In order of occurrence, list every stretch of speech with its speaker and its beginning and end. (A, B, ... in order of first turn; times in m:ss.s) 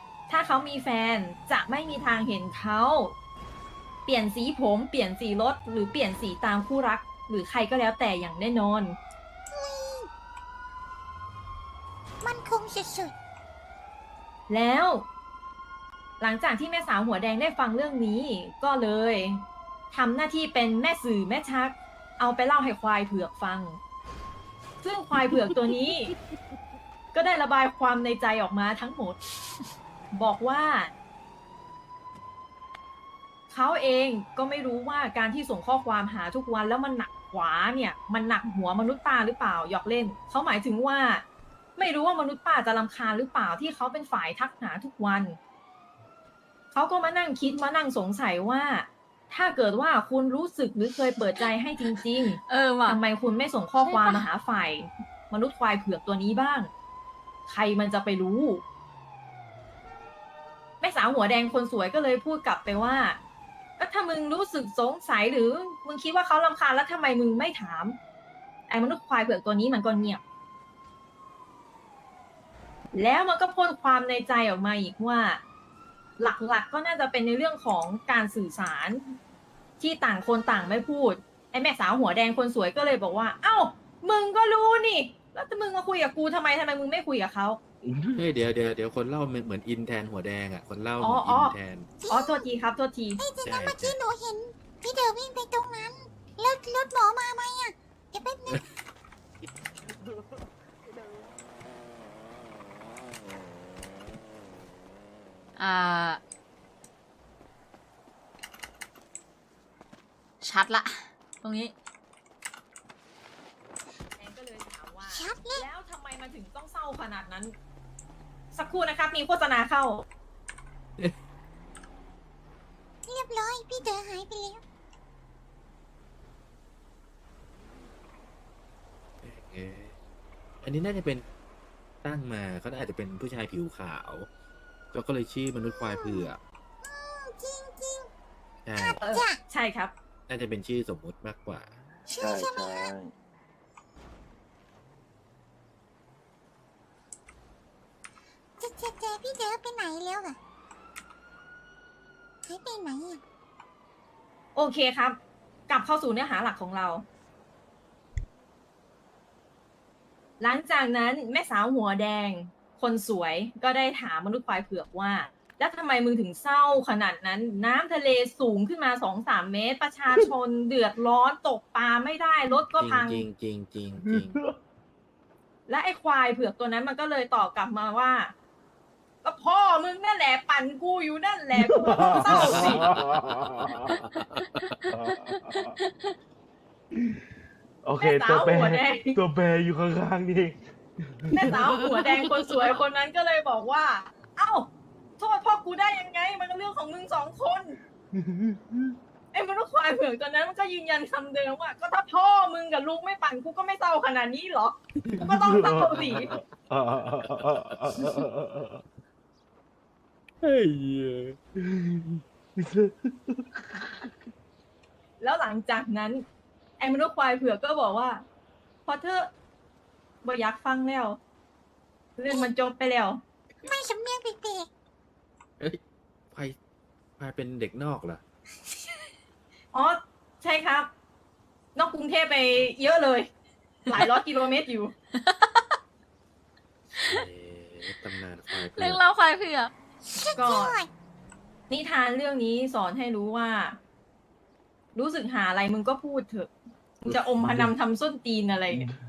0:00.3-0:03.1 A
0:04.0-0:09.0 A
0:09.5-0:10.1 B
0:12.2-0:13.1 B
0:14.5-0:15.0 A
0:16.2-0:23.8 A
0:24.8-0:26.1 A
0:27.1-0:29.2 A
0:30.1-0:30.9 A
0:33.5-0:41.2 A
0:41.8-0:45.4 A
0:46.7-0:56.7 A
0:52.4-0:53.0 C
0:53.8-0:54.2 C
0:57.5-0:58.6 A
1:00.8-1:03.2 A
1:03.8-1:08.0 A
1:08.7-1:10.2 A
1:12.9-1:15.4 A
1:16.2-1:19.2 A
1:19.8-1:27.6 A
1:27.8-1:28.3 D
1:28.2-1:31.9 E
1:31.0-1:31.6 A
1:32.0-1:32.4 B
1:32.1-1:33.2 A
1:33.2-1:38.6 B
1:33.4-1:34.0 E
1:39.9-1:40.3 D
1:45.6-1:46.2 C
1:50.4-1:51.7 C
1:54.1-1:57.5 A
1:55.1-1:55.6 B
1:58.5-2:00.0 A
2:03.0-2:04.6 B
2:09.2-2:09.9 E
2:10.6-2:11.2 E
2:12.0-2:14.3 E
2:14.9-2:16.4 E
2:15.6-2:16.3 B
2:16.8-2:18.1 B
2:18.6-2:19.0 E
2:18.8-2:19.4 B
2:19.0-2:19.9 A
2:20.3-2:21.7 E
2:22.1-2:22.9 B
2:22.2-2:23.0 D
2:28.6-2:30.4 B
2:32.4-2:33.2 B
2:34.5-2:35.2 A
2:35.7-2:37.0 A
2:40.4-2:53.2 A
2:52.8-2:54.4 E
2:54.1-2:54.5 D
2:55.7-2:58.3 A
2:59.2-3:02.8 A
3:01.5-3:04.0 D
3:02.2-3:04.8 E
3:04.9-3:05.8 D
3:07.8-3:11.9 D
3:08.0-3:09.2 A
3:11.3-3:17.8 A
3:18.1-3:19.0 D
3:19.3-3:26.3 A
3:25.0-3:26.3 E
3:25.2-3:28.8 D
3:27.2-3:28.2 E
3:30.4-3:31.4 E
3:31.6-3:34.0 D
3:35.2-3:36.2 A
3:36.8-3:38.2 A
3:38.9-3:39.3 A
3:40.2-3:41.2 A
3:42.2-3:43.2 A
3:43.6-3:44.7 B
3:47.2-3:48.2 E
3:48.7-3:49.0 B
3:49.7-3:50.9 A
3:51.8-3:53.3 A
3:53.9-3:54.9 A
3:55.2-3:55.8 C
3:57.0-3:57.2 C
3:57.0-3:59.0 E
3:58.6-3:59.7 C
4:00.1-4:00.9 B
4:00.3-4:00.8 A
4:01.7-4:03.8 A
4:04.9-4:08.9 A
4:07.4-4:07.7 E